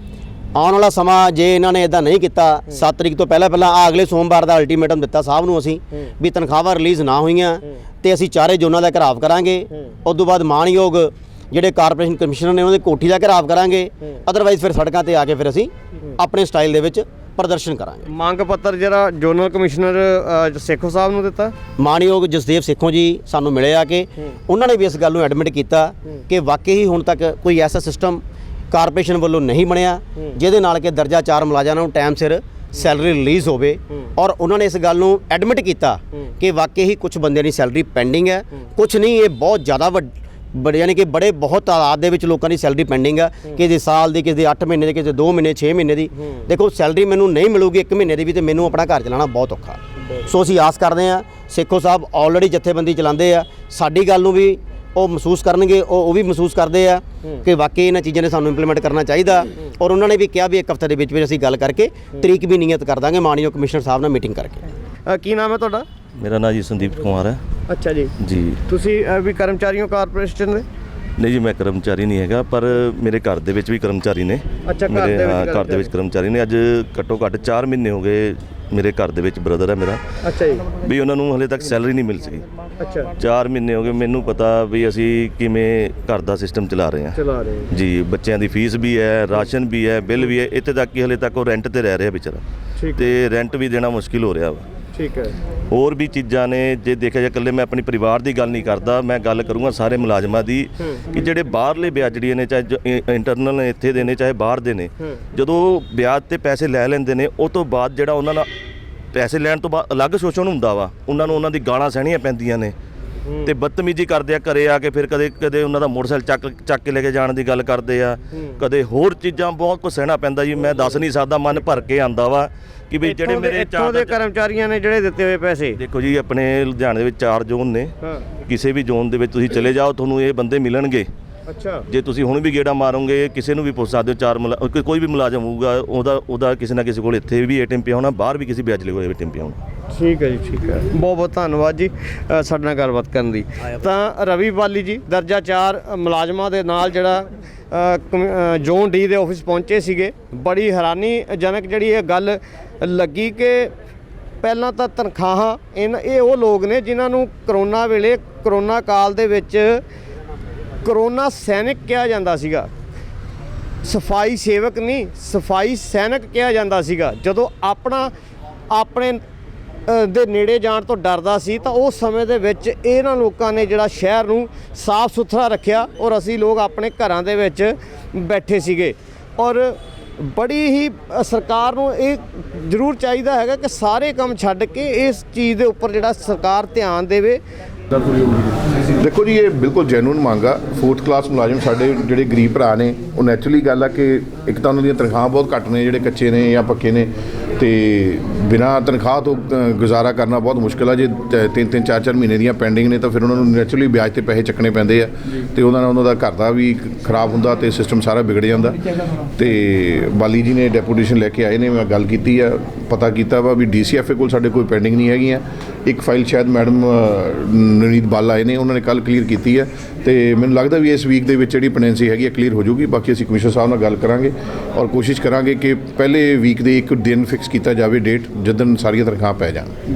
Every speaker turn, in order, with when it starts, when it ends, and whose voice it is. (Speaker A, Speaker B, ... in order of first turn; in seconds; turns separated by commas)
Speaker A: 0.6-18.1, Speaker B: 18.1-21.6, Speaker A: 21.8-64.6, Speaker B: 65.1-65.9, Speaker C: 66.2-67.4, Speaker B: 67.7-68.1, Speaker C: 68.2-68.6, Speaker B: 68.7-70.7, Speaker C: 71.2-80.0, Speaker B: 74.7-75.9, Speaker B: 80.2-80.7, Speaker C: 80.7-82.5, Speaker B: 82.8-83.1, Speaker C: 83.2-92.4, Speaker B: 87.2-87.7, Speaker B: 92.8-93.1, Speaker C: 93.0-94.7, Speaker B: 94.9-95.4, Speaker C: 95.7-108.5, Speaker C: 109.1-112.8, Speaker B: 113.2-113.5, Speaker C: 113.4-124.2, Speaker B: 123.1-125.8, Speaker C: 125.8-127.9, Speaker C: 128.5-131.1, Speaker B: 131.5-131.8, Speaker C: 131.9-139.6, Speaker B: 139.9-153.7, Speaker B: 154.4-159.8, Speaker B: 160.8-162.7, Speaker B: 163.8-168.1, Speaker B: 168.7-169.2, Speaker B: 169.9-187.4, Speaker D: 189.0-208.8, Speaker D: 209.4-229.7